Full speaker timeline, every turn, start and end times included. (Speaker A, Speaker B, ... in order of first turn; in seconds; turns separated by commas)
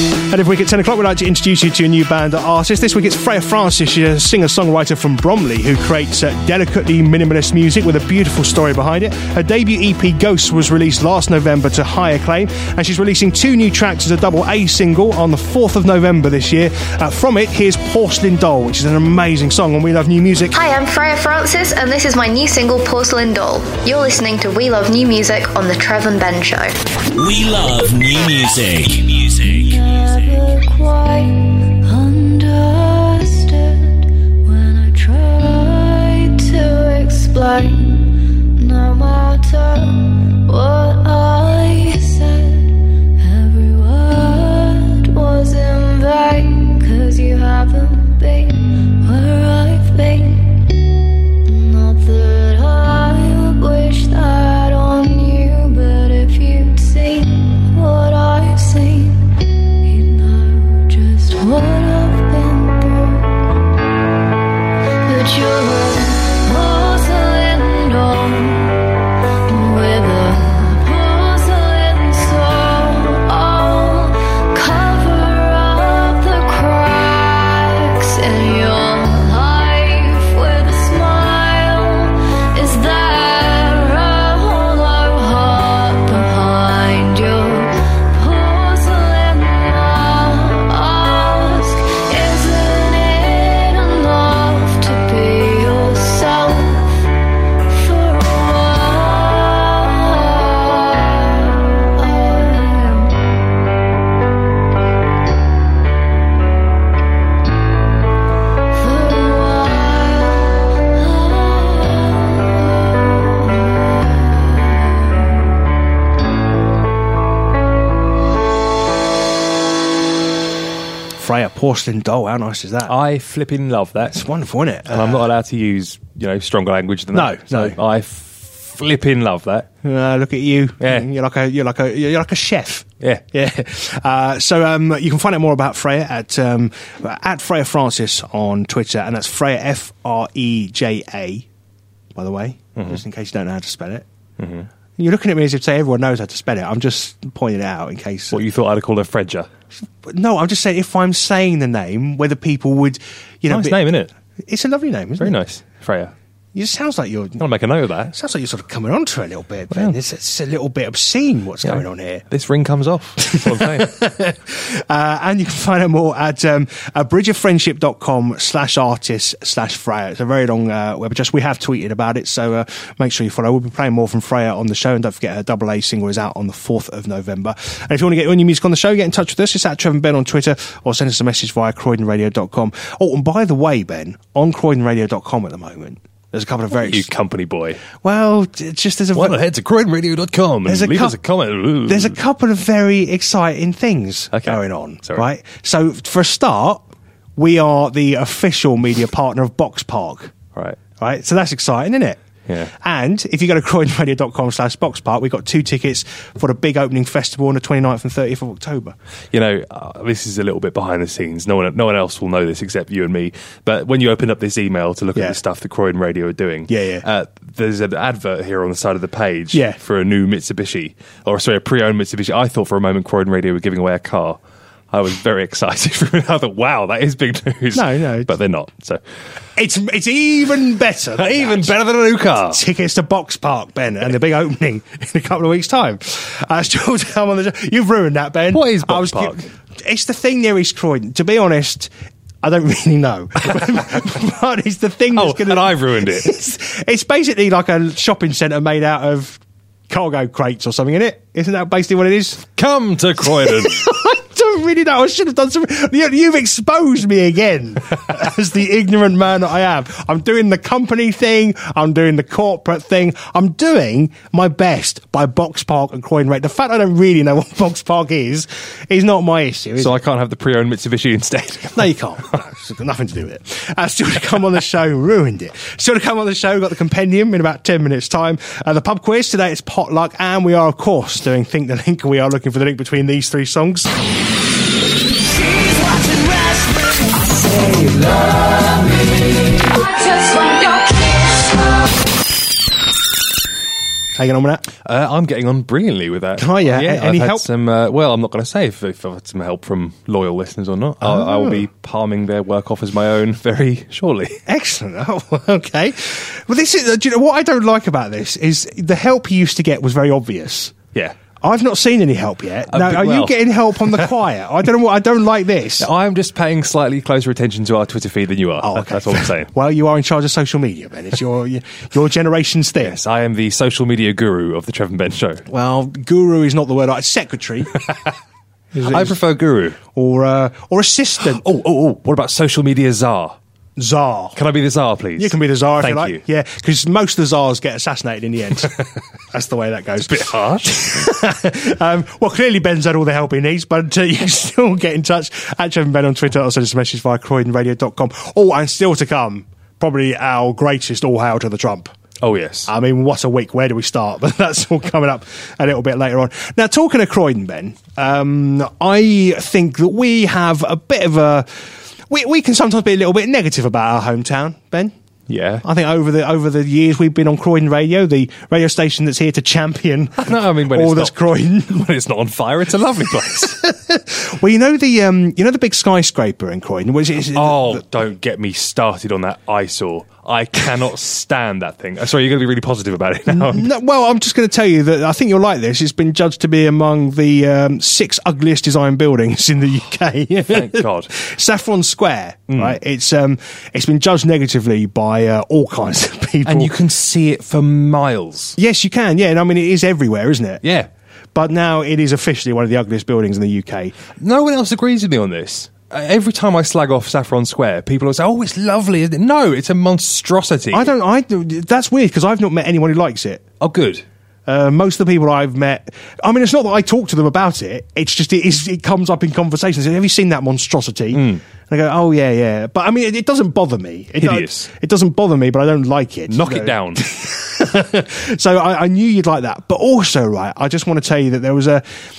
Speaker A: 0.3-20.6, Speaker B: 20.5-26.7, Speaker C: 27.1-29.6, Speaker D: 29.4-50.6, Speaker D: 51.5-59.3, Speaker D: 59.8-63.5, Speaker D: 65.1-68.8, Speaker D: 69.5-96.9, Speaker D: 97.7-103.2, Speaker D: 108.7-114.7, Speaker A: 121.2-122.9, Speaker E: 122.9-124.2, Speaker A: 124.1-125.2, Speaker E: 124.9-129.7, Speaker A: 127.1-127.8, Speaker A: 129.8-141.5, Speaker E: 130.8-131.1, Speaker A: 142.2-144.1, Speaker E: 142.8-143.0, Speaker E: 144.4-144.7, Speaker A: 145.0-148.4, Speaker E: 148.3-149.5, Speaker A: 150.0-155.4, Speaker E: 153.5-154.1, Speaker E: 155.2-156.1, Speaker A: 156.6-157.4, Speaker E: 157.4-158.1, Speaker A: 158.1-162.3, Speaker E: 161.6-163.9, Speaker A: 163.2-187.1, Speaker E: 186.7-187.8, Speaker A: 187.9-189.4, Speaker E: 189.1-192.2, Speaker A: 190.7-191.2, Speaker A: 191.9-196.8, Speaker E: 194.3-195.2, Speaker A: 197.4-200.3, Speaker A: 201.0-202.2, Speaker E: 202.5-202.7, Speaker A: 202.7-209.0, Speaker E: 209.3-224.4, Speaker A: 216.7-217.1, Speaker A: 219.5-219.8, Speaker E: 224.9-229.0, Speaker A: 227.7-228.3, Speaker A: 229.6-231.8, Speaker E: 231.2-232.6, Speaker A: 232.4-241.9, Speaker E: 238.5-239.5, Speaker A: 242.4-252.5, Speaker E: 245.1-246.3, Speaker E: 252.6-253.9, Speaker A: 253.2-270.0, Speaker E: 269.8-271.9, Speaker A: 271.7-283.9, Speaker A: 294.2-294.7, Speaker E: 294.8-304.4, Speaker A: 296.4-297.5, Speaker A: 301.0-301.6, Speaker A: 304.5-310.8, Speaker A: 311.4-315.9, Speaker E: 312.7-314.1, Speaker E: 315.8-319.5, Speaker A: 318.6-323.0, Speaker E: 322.8-325.4, Speaker A: 325.5-327.9, Speaker A: 328.7-329.2, Speaker E: 328.8-329.8, Speaker A: 329.9-331.4, Speaker E: 331.4-333.4, Speaker A: 333.8-334.4, Speaker E: 334.4-336.2, Speaker A: 335.2-351.9, Speaker E: 340.0-340.7, Speaker E: 352.2-352.7, Speaker A: 352.7-364.9, Speaker E: 365.3-365.6, Speaker A: 365.6-371.9, Speaker E: 370.2-373.6, Speaker A: 373.4-377.8, Speaker E: 377.3-383.7, Speaker A: 383.3-396.8, Speaker E: 390.5-391.1, Speaker E: 392.5-392.8, Speaker E: 396.4-398.6, Speaker A: 398.6-400.6, Speaker E: 400.6-400.9, Speaker A: 401.3-404.0, Speaker E: 404.2-410.9, Speaker A: 410.7-413.4, Speaker E: 413.6-414.1, Speaker A: 414.5-431.8, Speaker E: 421.1-421.4, Speaker E: 424.2-424.7, Speaker E: 426.3-427.1